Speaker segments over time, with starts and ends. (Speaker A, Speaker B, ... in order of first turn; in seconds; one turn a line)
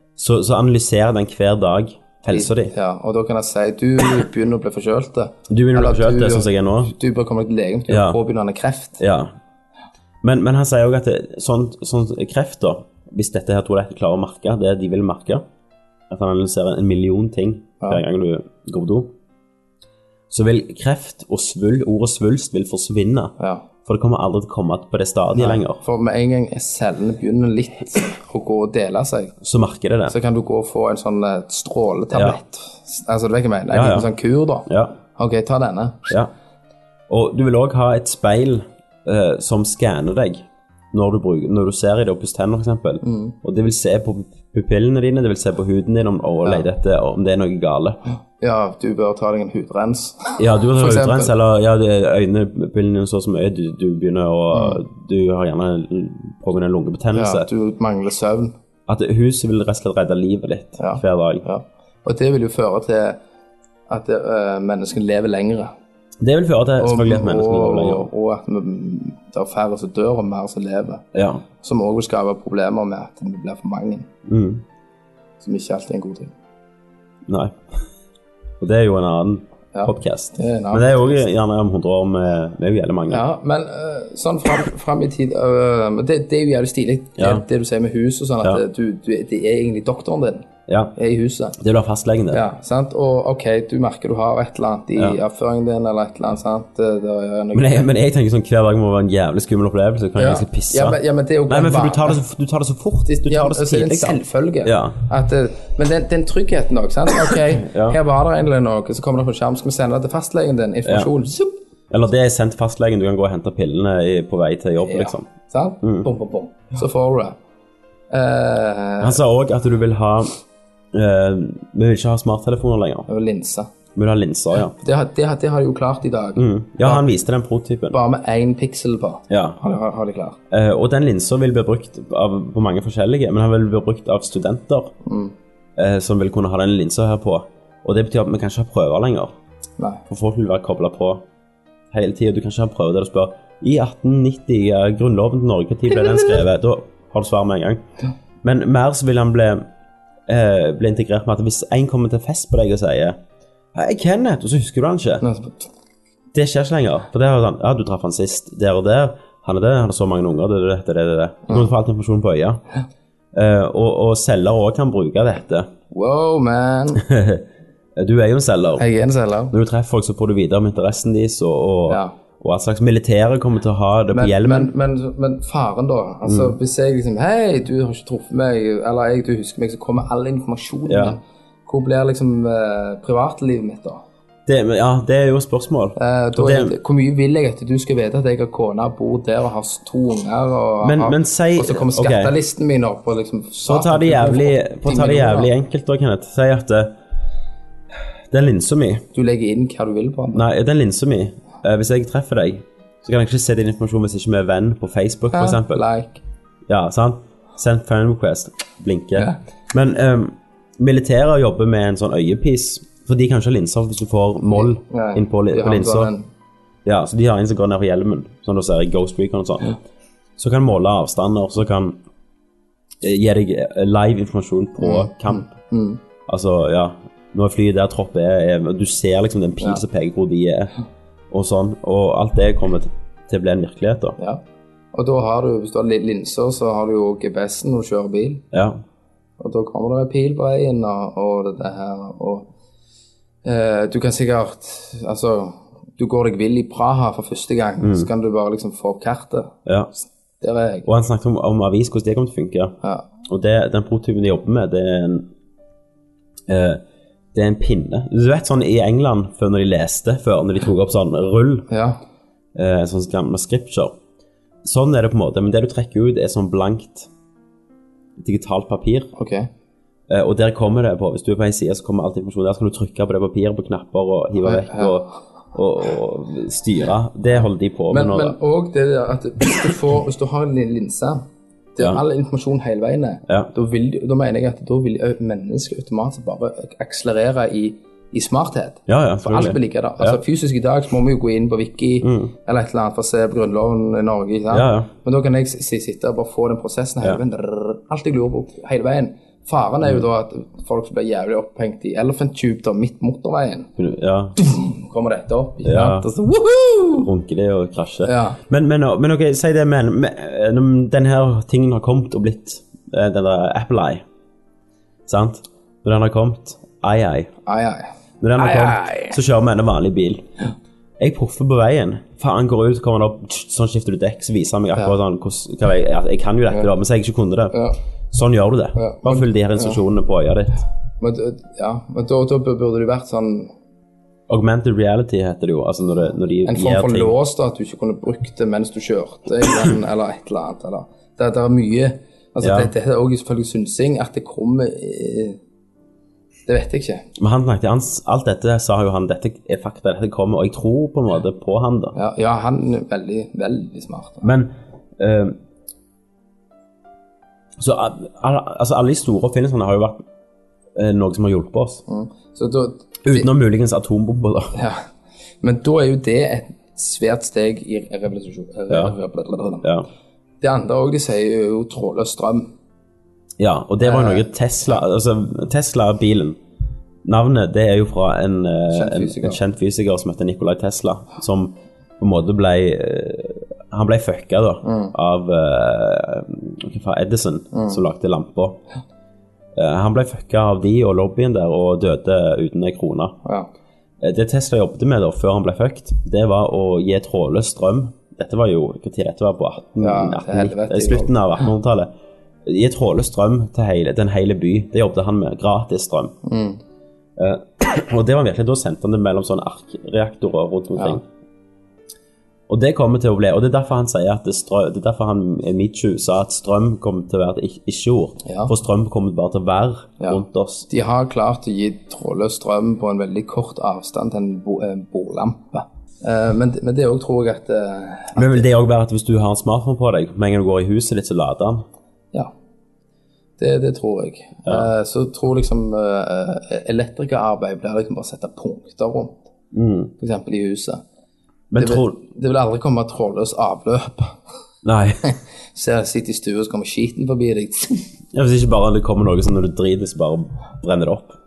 Speaker A: 0.2-2.7
Speaker B: 2.3-9.0
Speaker A: 5.5-6.9
Speaker A: 7.9-8.2
Speaker A: 9.0-9.3
Speaker A: 10.2-15.4
Speaker A: 16.1-19.1
Speaker A: 20.3-23.3
Speaker B: 23.4-23.6
Speaker A: 23.8-25.8
Speaker B: 25.3-29.3
Speaker A: 29.4-30.1
Speaker B: 30.1-36.1
Speaker A: 33.7-34.1
Speaker A: 34.7-35.0
Speaker A: 37.1-48.0
Speaker B: 43.0-43.3
Speaker B: 48.4-51.3
Speaker A: 50.4-57.5
Speaker B: 54.5-54.8
Speaker B: 57.1-58.5
Speaker A: 58.9-61.4
Speaker B: 60.8-63.2
Speaker B: 63.9-65.7
Speaker A: 66.2-68.1
Speaker B: 66.8-71.0
Speaker A: 71.1-71.4
Speaker B: 71.6-74.1
Speaker A: 74.2-74.6
Speaker B: 75.4-76.3
Speaker A: 77.3-77.6
Speaker A: 78.6-83.2
Speaker B: 79.7-81.2
Speaker B: 83.1-91.6
Speaker A: 87.2-87.4
Speaker A: 90.7-90.9
Speaker A: 91.6-92.4
Speaker B: 92.3-97.9
Speaker A: 97.5-105.0
Speaker B: 100.2-102.2
Speaker B: 103.0-111.5
Speaker A: 107.6-108.0
Speaker A: 110.8-111.1
Speaker A: 111.9-115.3
Speaker B: 114.8-117.4
Speaker A: 115.8-116.1
Speaker B: 118.1-119.2
Speaker A: 119.0-120.4
Speaker A: 120.9-123.1
Speaker B: 123.1-123.7
Speaker A: 124.0-124.7
Speaker B: 124.7-127.0
Speaker A: 126.3-128.0
Speaker B: 127.9-130.4
Speaker A: 129.3-129.6
Speaker A: 130.5-134.9
Speaker B: 135.0-135.3
Speaker A: 135.8-139.3
Speaker A: 140.1-141.2
Speaker A: 141.9-147.8
Speaker B: 146.0-146.4
Speaker A: 148.4-149.7
Speaker A: 150.3-153.2
Speaker A: 153.7-155.2
Speaker B: 155.2-155.7
Speaker A: 156.3-162.6
Speaker A: 163.3-165.7
Speaker B: 165.9-167.0
Speaker A: 166.9-167.4
Speaker A: 168.0-168.8
Speaker B: 168.8-169.5
Speaker A: 169.5-174.7
Speaker B: 171.9-172.1
Speaker B: 174.1-184.0
Speaker A: 176.2-176.5
Speaker A: 180.9-181.2
Speaker A: 184.4-186.8
Speaker B: 186.0-195.5
Speaker A: 190.8-192.3
Speaker A: 193.6-196.9
Speaker A: 198.3-199.1
Speaker B: 199.1-200.4
Speaker A: 200.3-205.8
Speaker B: 205.3-206.2
Speaker A: 206.7-216.1
Speaker B: 214.5-216.3
Speaker A: 216.8-219.8
Speaker A: 220.4-222.0
Speaker A: 223.0-225.5
Speaker B: 224.8-226.0
Speaker A: 226.3-230.7
Speaker A: 231.3-234.2
Speaker B: 234.2-238.4
Speaker A: 238.5-238.8
Speaker B: 239.4-242.5
Speaker B: 243.4-249.5
Speaker A: 247.8-248.1
Speaker B: 250.4-250.9
Speaker A: 250.8-252.7
Speaker A: 253.2-255.3
Speaker A: 256.5-256.8
Speaker A: 257.3-261.7
Speaker B: 261.7-262.0
Speaker A: 262.5-263.9
Speaker A: 264.6-267.1
Speaker A: 268.2-269.1
Speaker B: 269.1-269.5
Speaker A: 270.1-278.4
Speaker B: 274.4-275.0
Speaker B: 277.9-303.7
Speaker A: 288.9-290.2
Speaker A: 292.0-292.3
Speaker A: 294.5-294.9
Speaker A: 303.8-304.4
Speaker B: 304.4-307.1
Speaker A: 305.6-306.1
Speaker A: 306.9-314.0
Speaker B: 308.0-308.4
Speaker A: 315.1-317.3
Speaker B: 317.4-319.2
Speaker A: 318.2-320.2
Speaker A: 321.0-327.6
Speaker B: 327.5-327.8
Speaker A: 328.1-330.6
Speaker B: 328.8-329.8
Speaker B: 331.0-333.5
Speaker A: 334.3-337.1
Speaker B: 336.4-345.4
Speaker A: 342.4-342.7
Speaker B: 346.4-347.1
Speaker A: 347.2-351.9
Speaker B: 351.9-354.3
Speaker A: 354.2-355.4
Speaker A: 357.6-360.0
Speaker A: 360.8-361.8
Speaker B: 361.9-363.3
Speaker A: 363.0-364.5
Speaker B: 364.5-364.9
Speaker B: 365.4-369.7
Speaker A: 368.7-368.9
Speaker B: 370.4-372.5
Speaker A: 373.4-376.4
Speaker B: 373.8-374.3
Speaker A: 377.0-388.6
Speaker B: 378.7-379.4
Speaker B: 384.6-384.9
Speaker B: 387.5-387.8
Speaker A: 389.6-393.1
Speaker B: 393.2-393.5
Speaker A: 394.0-401.9
Speaker B: 399.8-401.4
Speaker A: 402.4-406.1
Speaker B: 406.2-406.6
Speaker A: 407.2-411.0
Speaker A: 412.5-420.7
Speaker B: 418.2-418.5
Speaker B: 420.0-428.4
Speaker A: 428.1-431.6
Speaker B: 433.4-439.2
Speaker A: 434.4-434.7
Speaker A: 439.5-439.9
Speaker B: 440.0-440.8
Speaker A: 441.5-442.0
Speaker B: 441.6-444.2
Speaker A: 444.6-445.1
Speaker B: 445.0-447.9
Speaker A: 448.1-451.2